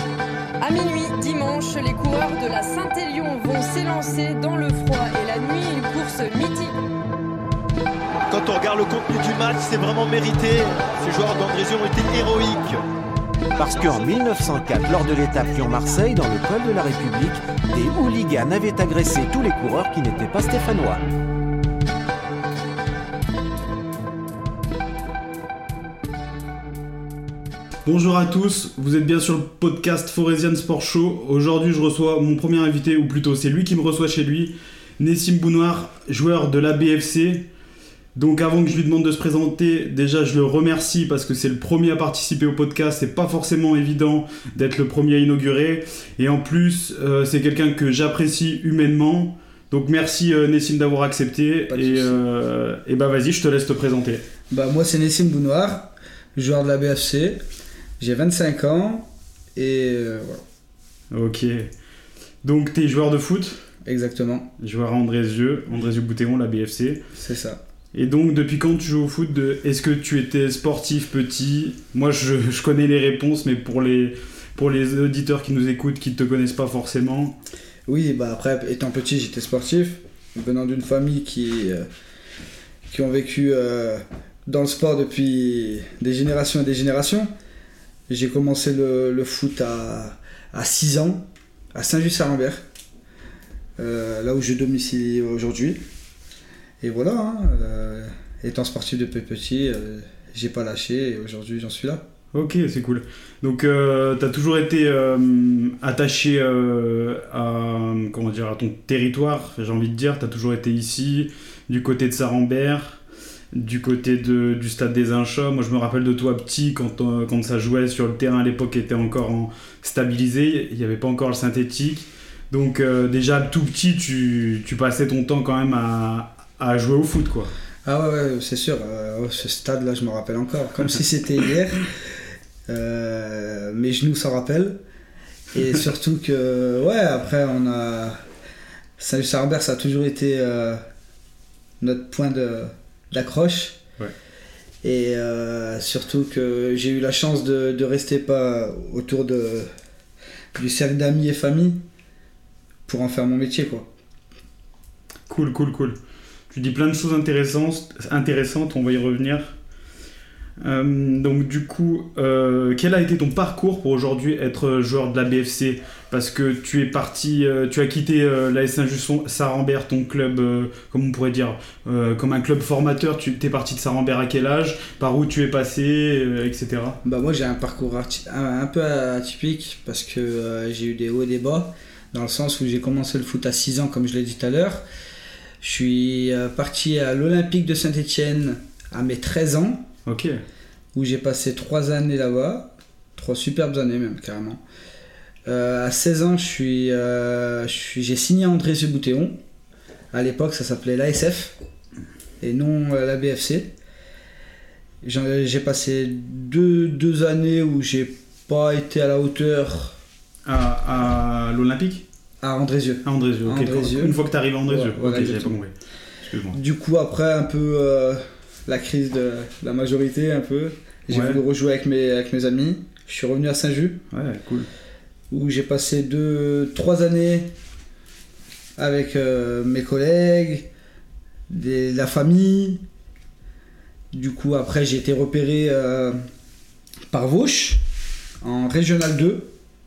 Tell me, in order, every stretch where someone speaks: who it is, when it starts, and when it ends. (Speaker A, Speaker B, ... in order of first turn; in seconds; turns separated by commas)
Speaker A: 0.6-6.8, Speaker B: 8.3-12.8, Speaker C: 13.6-21.0, Speaker D: 27.9-37.5, Speaker D: 38.1-54.2, Speaker E: 51.7-52.2, Speaker E: 54.5-57.4, Speaker E: 58.0-60.4, Speaker D: 61.1-61.7, Speaker D: 62.4-63.7, Speaker E: 63.9-64.5, Speaker D: 64.6-67.0, Speaker E: 67.2-67.6, Speaker D: 67.9-77.4, Speaker E: 77.9-81.9, Speaker E: 82.9-87.3, Speaker E: 88.1-92.6, Speaker E: 93.8-95.8, Speaker E: 96.8-102.0, Speaker D: 102.3-113.0, Speaker D: 113.5-127.5, Speaker E: 127.9-132.1, Speaker E: 132.7-134.8, Speaker E: 135.5-138.2, Speaker E: 139.0-140.8, Speaker E: 141.8-143.8, Speaker E: 144.8-149.7, Speaker E: 150.6-151.8, Speaker E: 152.9-153.9, Speaker D: 155.3-156.0, Speaker D: 156.5-159.6, Speaker D: 160.6-177.0, Speaker E: 177.0-184.8, Speaker E: 185.6-189.9, Speaker D: 190.1-190.4, Speaker E: 190.9-194.6, Speaker E: 195.5-199.4, Speaker E: 200.1-201.6, Speaker E: 202.4-203.7, Speaker E: 205.0-210.0, Speaker D: 210.4-212.0, Speaker E: 212.4-215.6, Speaker D: 213.1-216.6, Speaker E: 216.5-224.0, Speaker D: 221.1-221.4, Speaker D: 224.1-224.7, Speaker E: 225.3-227.5, Speaker E: 228.8-230.7, Speaker E: 231.5-232.8, Speaker E: 234.1-236.2, Speaker E: 237.1-237.8, Speaker E: 238.4-239.5